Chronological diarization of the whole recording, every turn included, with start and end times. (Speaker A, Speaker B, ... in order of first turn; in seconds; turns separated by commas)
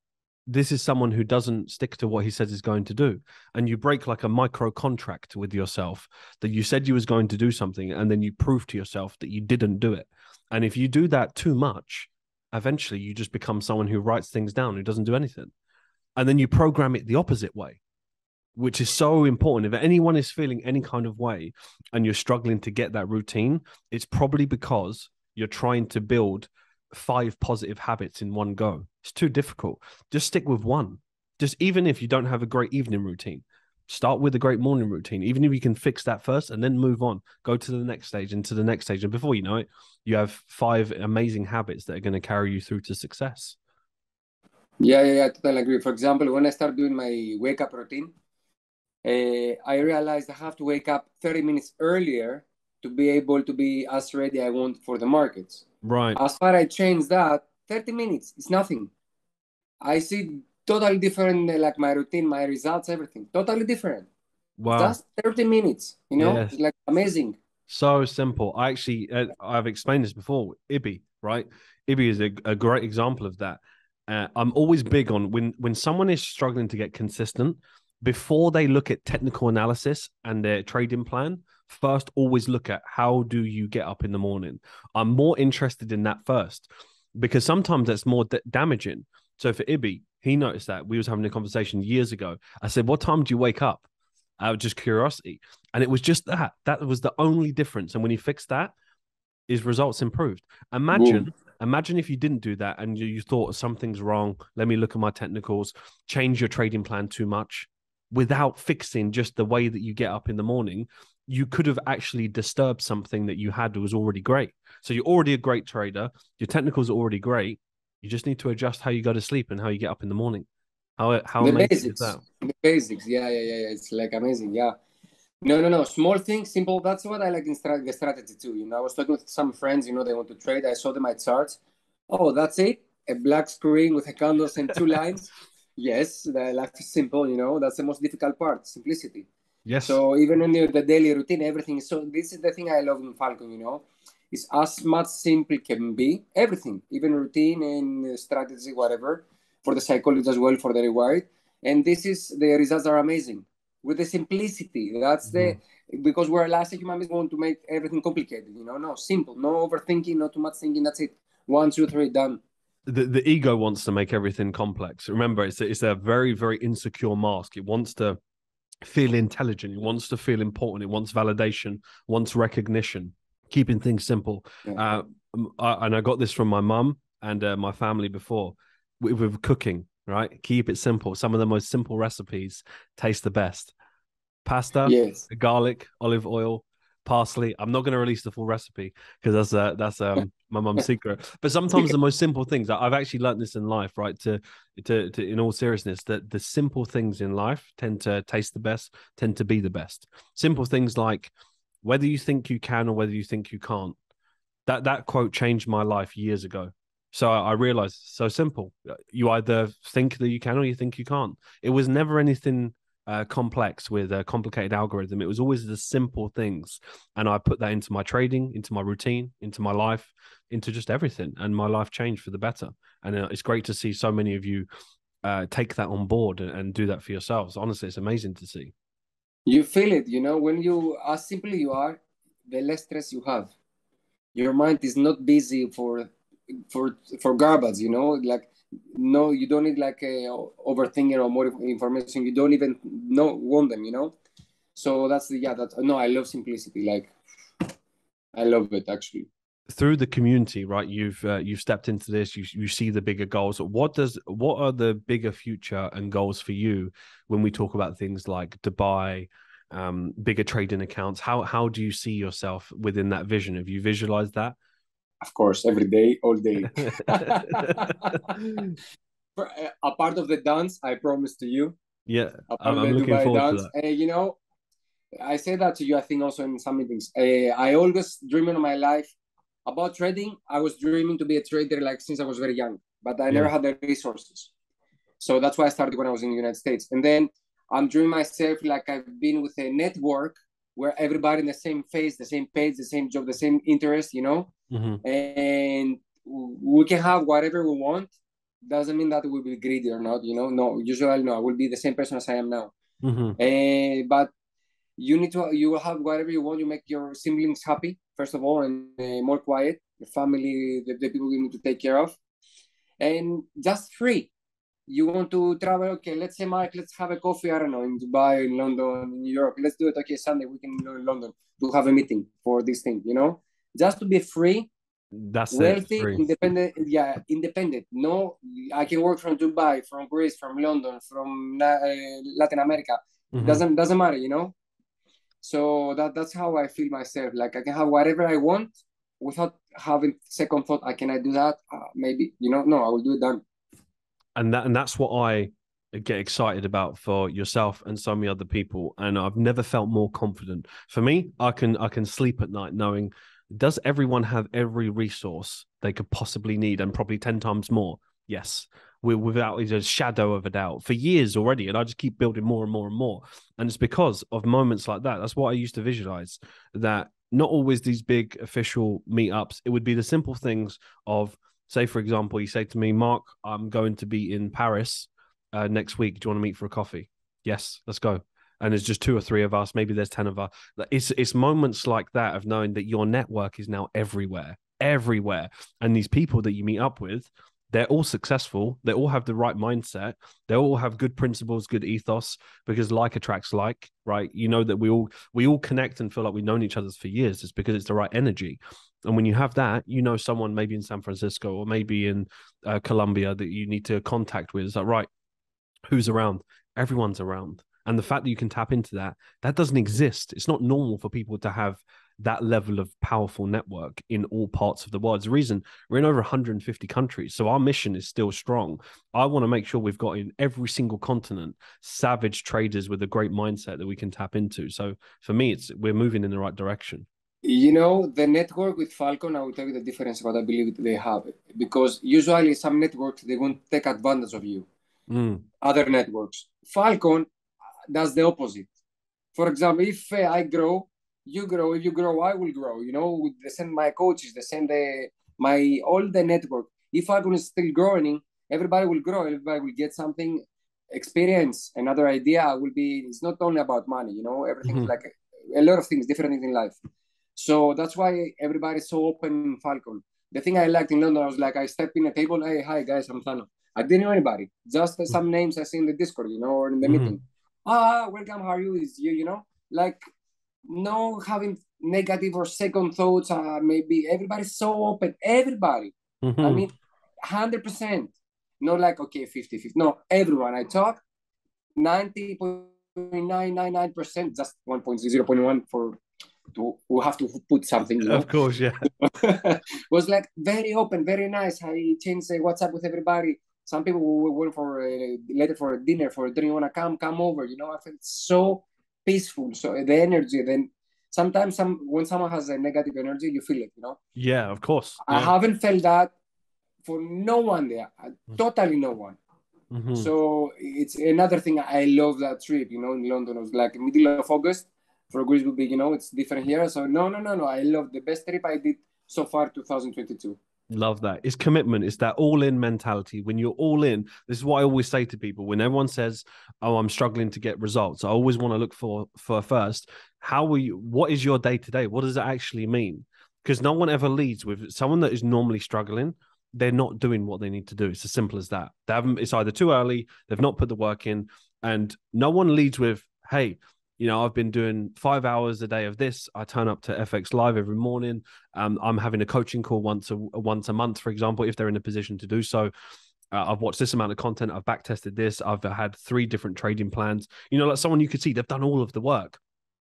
Speaker A: 0.5-15.5, Speaker A: 16.2-17.8, Speaker A: 18.5-43.6, Speaker B: 44.8-48.1, Speaker B: 49.0-55.6, Speaker A: 55.8-56.2, Speaker B: 56.1-58.9, Speaker B: 59.8-64.1, Speaker A: 64.6-65.0, Speaker B: 64.7-67.4, Speaker A: 66.2-66.5, Speaker A: 67.7-93.9, Speaker A: 94.4-98.7, Speaker A: 99.5-120.5, Speaker B: 100.9-101.3, Speaker A: 121.0-122.2, Speaker B: 121.4-124.7, Speaker B: 125.4-139.3, Speaker A: 139.7-140.0, Speaker B: 139.8-162.4, Speaker A: 155.2-155.6, Speaker A: 162.9-168.2, Speaker A: 168.8-183.7, Speaker A: 184.4-201.3, Speaker B: 184.8-185.2, Speaker A: 201.8-203.9, Speaker A: 204.7-224.7, Speaker A: 225.2-228.7, Speaker B: 229.4-233.5, Speaker B: 234.3-244.1, Speaker B: 244.7-247.1, Speaker B: 248.3-249.3, Speaker A: 249.7-264.6, Speaker B: 265.2-268.2, Speaker A: 266.7-268.8, Speaker B: 269.4-271.8, Speaker A: 272.1-273.7, Speaker B: 272.5-274.4, Speaker B: 275.2-279.1, Speaker B: 279.6-284.5, Speaker B: 285.2-294.5, Speaker A: 294.7-295.0, Speaker B: 295.0-298.1, Speaker B: 298.6-302.7, Speaker A: 303.0-303.4, Speaker B: 303.4-304.3, Speaker B: 305.0-312.2, Speaker B: 313.0-314.3, Speaker B: 314.9-324.7, Speaker A: 325.1-326.2, Speaker B: 325.5-334.5, Speaker A: 333.3-333.6, Speaker B: 335.4-343.4, Speaker A: 344.4-405.1, Speaker A: 405.9-427.1, Speaker B: 427.4-434.7, Speaker A: 435.1-435.5, Speaker B: 435.6-437.3, Speaker B: 437.9-438.7, Speaker B: 439.3-456.8, Speaker A: 454.6-454.9, Speaker B: 457.4-470.0, Speaker A: 466.8-467.1, Speaker B: 470.7-476.7, Speaker A: 476.2-476.7, Speaker B: 477.2-481.0, Speaker B: 481.8-486.0, Speaker B: 486.5-488.3, Speaker A: 488.0-488.9, Speaker B: 489.0-504.0, Speaker A: 504.1-505.3, Speaker B: 505.0-506.1, Speaker B: 506.8-509.2, Speaker A: 509.7-510.1, Speaker B: 509.9-520.4, Speaker A: 520.7-552.7, Speaker A: 553.3-559.4